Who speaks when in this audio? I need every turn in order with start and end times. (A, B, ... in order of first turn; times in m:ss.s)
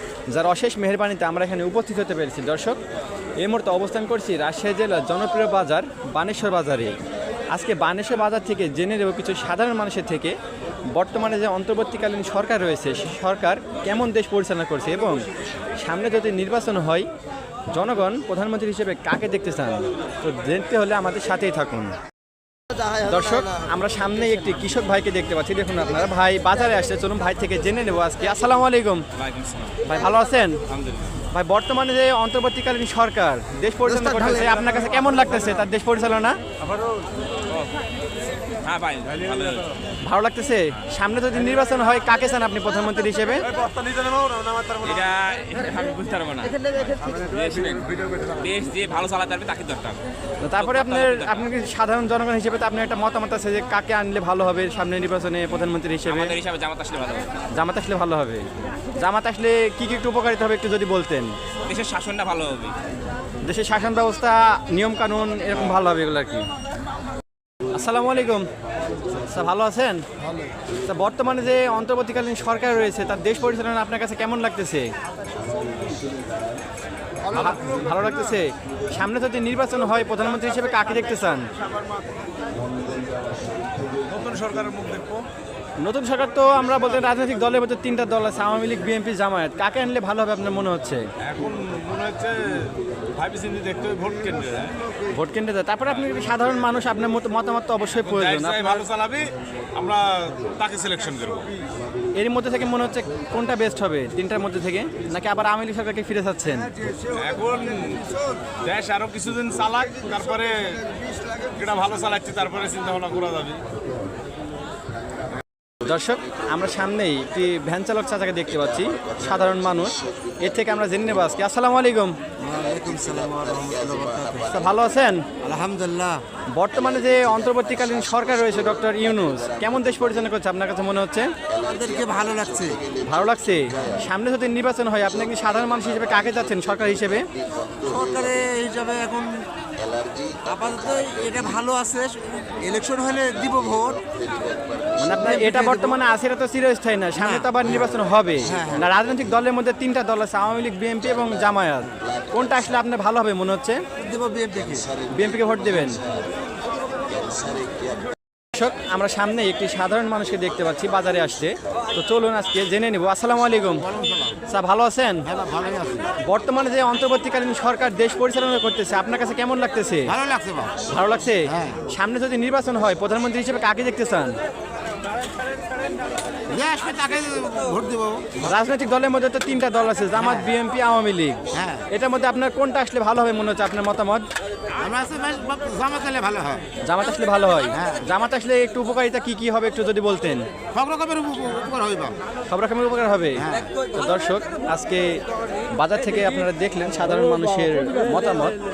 0:00.3-0:02.8 A
0:03.4-0:07.0 A
0:07.5-0:10.4 A
0:10.9-0:15.3 A
0:15.8-0:17.1 A
0:17.7-0:21.9 A
0:23.0-0:29.0 A
0:29.2-0:29.8 B
0:29.8-0:30.6 A
0:30.7-0:31.1 B
0:31.3-0:36.4 A
0:38.6-0:39.7 B
0:40.0-0:43.5 A
0:44.7-0:50.0 B
0:50.4-0:56.4 A
0:50.6-0:51.5 B
0:56.0-0:57.3 B
0:57.5-1:01.4 A
1:01.7-1:02.8 B
1:03.4-1:06.5 A
1:07.7-1:08.5 A
1:09.3-1:10.0 A
1:10.9-1:14.9 A
1:17.3-1:21.5 A
1:24.1-1:25.3 C
1:25.8-1:31.1 A
1:31.2-1:34.8 C
1:35.1-1:38.8 A
1:38.0-1:41.5 C
1:42.2-1:46.7 A
1:47.0-1:50.8 C
1:51.4-1:53.6 C
1:55.8-2:02.2 A
2:02.4-2:04.6 D
2:04.5-2:05.2 A
2:05.4-2:06.2 D
2:06.5-2:11.3 A
2:11.6-2:12.8 D
2:13.0-2:17.2 A
2:17.8-2:19.3 D
2:20.4-2:24.0 D
2:25.0-2:33.8 A
2:25.0-2:26.0 D
2:27.2-2:27.7 D
2:28.4-2:28.8 D
2:34.0-2:34.9 D
2:35.2-2:36.0 A
2:38.5-2:43.9 A
2:43.8-2:44.4 D
2:44.5-2:45.3 A
2:45.3-2:46.1 D
2:46.2-2:50.1 A
2:50.1-2:50.9 D
2:50.9-2:54.4 A
2:51.5-2:51.8 D
2:56.5-2:58.4 D
2:58.4-3:04.2 A
3:00.2-3:00.5 D
3:01.5-3:01.9 D
3:04.8-3:06.7 D
3:06.8-3:10.5 A
3:07.7-3:08.1 D
3:10.7-3:12.2 D
3:12.5-3:15.2 A
3:13.4-3:13.7 D
3:15.8-3:18.6 A